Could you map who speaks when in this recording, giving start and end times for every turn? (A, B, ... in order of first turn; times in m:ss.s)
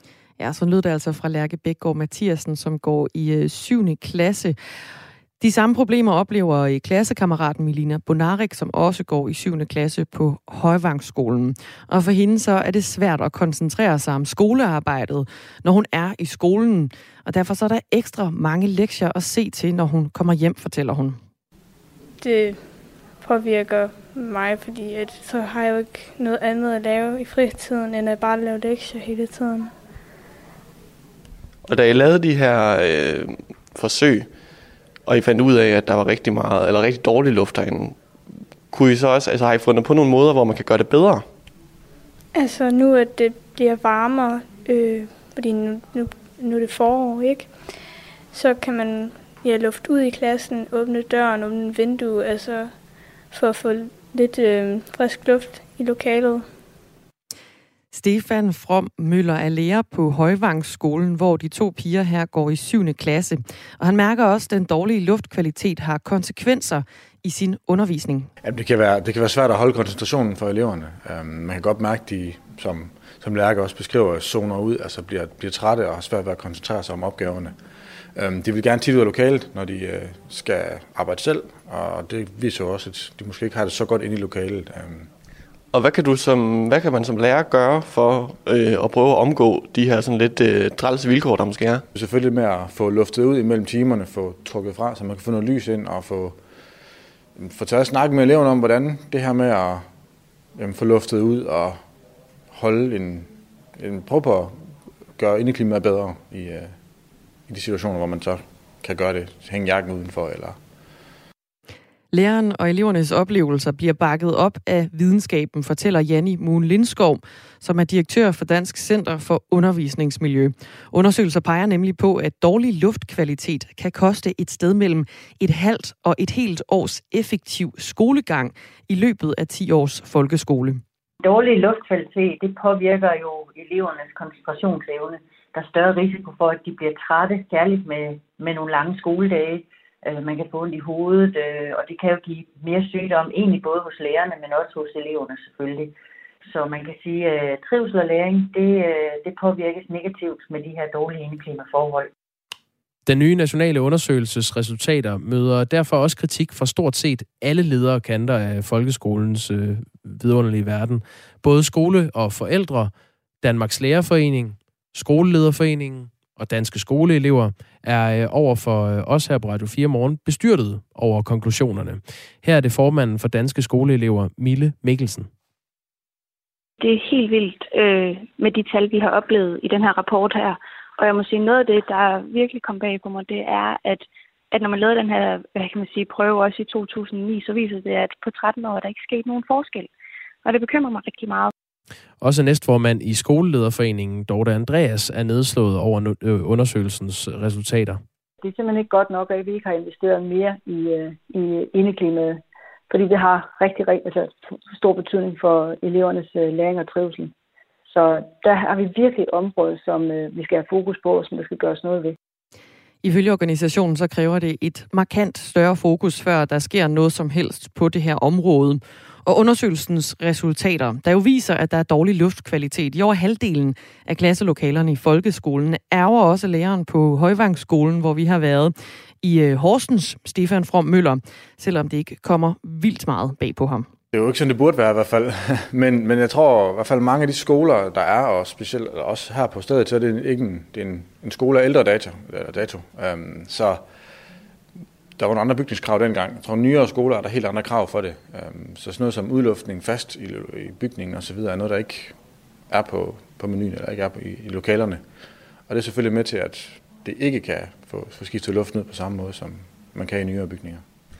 0:00.4-0:04.6 A
0:05.4-0:21.2 A
0:22.2-0:29.7 B
0:31.6-0:34.3 C
0:35.0-0:38.0 C
0:38.7-0:41.3 C
0:42.3-0:47.6 B
0:48.3-0:52.8 B
0:53.3-0:56.5 B
0:57.9-1:08.3 A
1:08.4-1:17.6 D
1:18.1-1:25.1 D
1:25.7-1:31.8 C
1:31.9-1:36.4 D
1:37.4-1:39.9 D
1:40.6-1:41.8 D
1:42.5-1:46.7 D
1:47.5-1:50.6 D
1:52.1-2:10.8 A
2:11.2-2:25.9 E
2:26.4-2:32.1 E
2:33.0-2:42.9 F
2:43.4-2:55.3 F
2:56.8-3:09.9 G
3:10.4-3:11.5 G
3:12.2-3:18.0 F
3:18.4-3:27.3 H
3:27.9-3:32.2 H
3:33.0-3:53.9 A
3:54.1-4:03.8 D
4:05.2-4:12.2 D
4:12.7-4:15.0 D
4:15.7-4:20.8 D